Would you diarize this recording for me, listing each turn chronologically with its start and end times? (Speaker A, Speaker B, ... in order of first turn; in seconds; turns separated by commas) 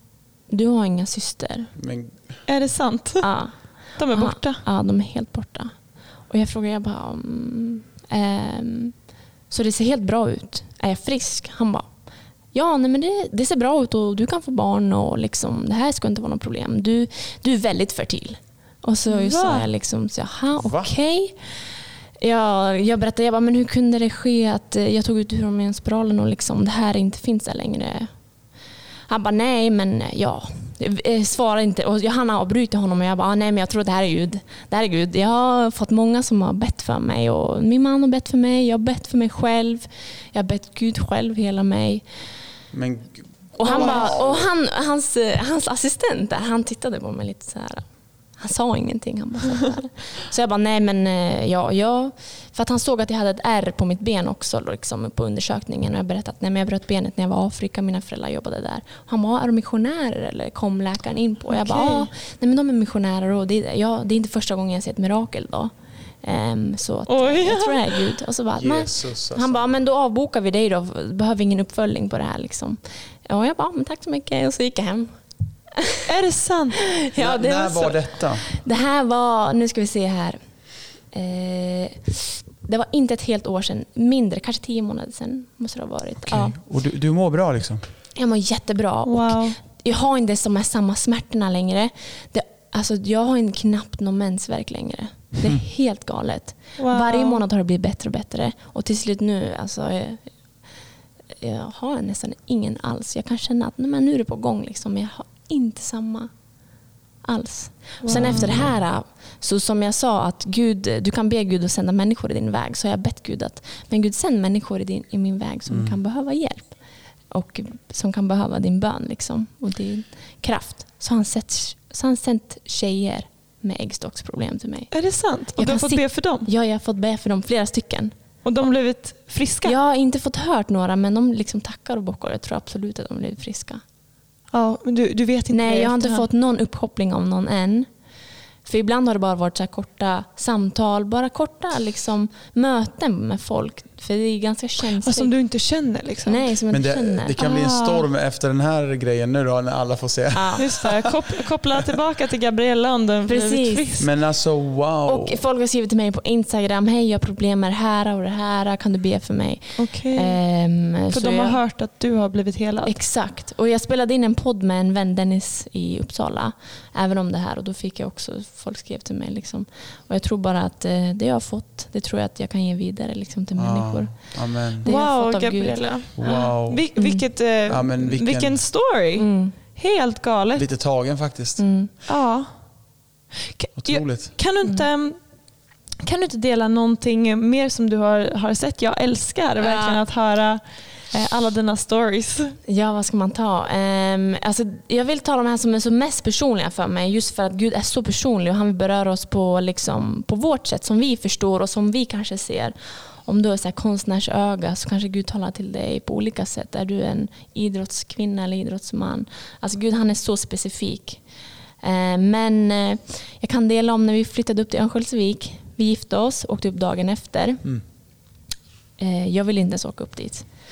Speaker A: 0.5-1.7, Speaker B: 1.7-2.4, Speaker C: 2.5-3.3, Speaker A: 3.2-5.7, Speaker C: 4.0-4.6, Speaker A: 6.3-11.9, Speaker A: 12.5-28.1, Speaker C: 19.1-19.7, Speaker B: 20.6-20.9, Speaker A: 29.1-42.0, Speaker B: 42.7-44.5, Speaker A: 43.6-75.2, Speaker C: 43.6-44.1, Speaker C: 61.5-62.1, Speaker C: 67.1-68.1, Speaker B: 68.5-69.7, Speaker A: 75.7-76.0, Speaker C: 76.0-76.8, Speaker A: 76.9-86.6, Speaker B: 77.1-78.5, Speaker B: 86.2-87.9, Speaker A: 88.1-100.3, Speaker C: 89.0-89.6, Speaker C: 96.8-97.4, Speaker A: 101.4-106.3, Speaker A: 107.2-124.9, Speaker C: 108.0-108.6, Speaker B: 108.1-108.8, Speaker B: 115.7-116.0, Speaker C: 124.9-126.5, Speaker A: 125.5-128.1, Speaker C: 128.4-129.8, Speaker A: 129.6-133.8, Speaker C: 134.5-136.3, Speaker A: 135.5-137.9, Speaker A: 138.6-145.3, Speaker C: 144.9-146.4, Speaker A: 146.2-147.4, Speaker B: 146.7-151.0, Speaker C: 147.4-148.1, Speaker A: 150.3-151.0, Speaker C: 150.6-154.1, Speaker A: 153.2-154.1, Speaker B: 154.0-155.4, Speaker A: 155.0-161.6, Speaker C: 159.8-160.4, Speaker C: 161.1-163.0, Speaker A: 162.8-177.2, Speaker B: 173.6-174.9, Speaker C: 174.8-180.7, Speaker B: 176.1-176.9, Speaker B: 177.6-178.7, Speaker A: 179.2-179.6, Speaker B: 180.5-181.7, Speaker A: 181.6-181.9, Speaker C: 182.1-182.5, Speaker C: 183.3-185.3, Speaker B: 183.8-184.4, Speaker C: 185.9-192.6, Speaker A: 189.6-190.0, Speaker A: 192.7-211.2, Speaker A: 211.8-217.6, Speaker A: 219.0-220.5